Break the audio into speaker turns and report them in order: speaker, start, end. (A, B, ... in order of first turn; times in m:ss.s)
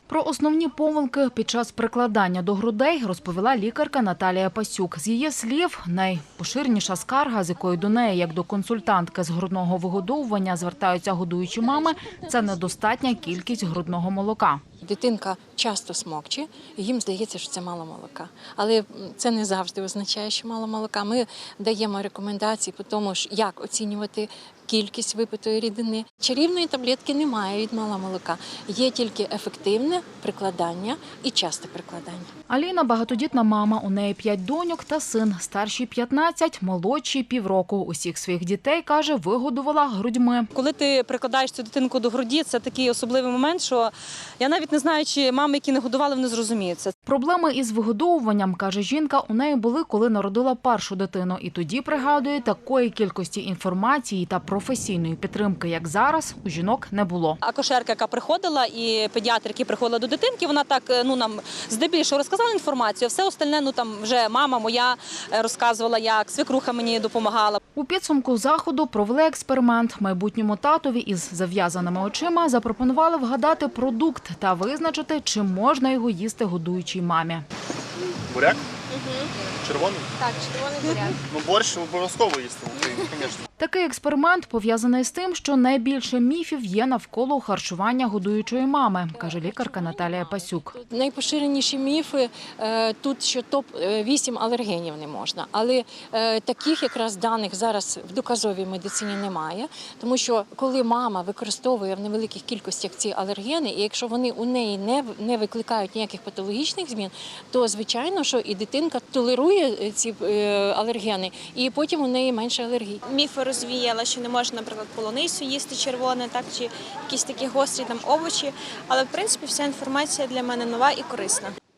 0:00.1-0:14.6 A
0:14.8-0:32.3 B
0:32.5-0:40.5 A
0:40.5-0:46.9 C
0:47.1-0:57.4 A
0:57.4-1:07.6 C
1:07.8-1:17.4 A
1:18.3-1:18.7 D
1:19.0-1:19.3 E
1:19.6-1:20.1 D
1:20.2-1:21.2 E
1:21.2-1:23.4 D
1:23.6-1:30.7 A
1:29.2-1:53.0 B
1:53.1-2:01.5 E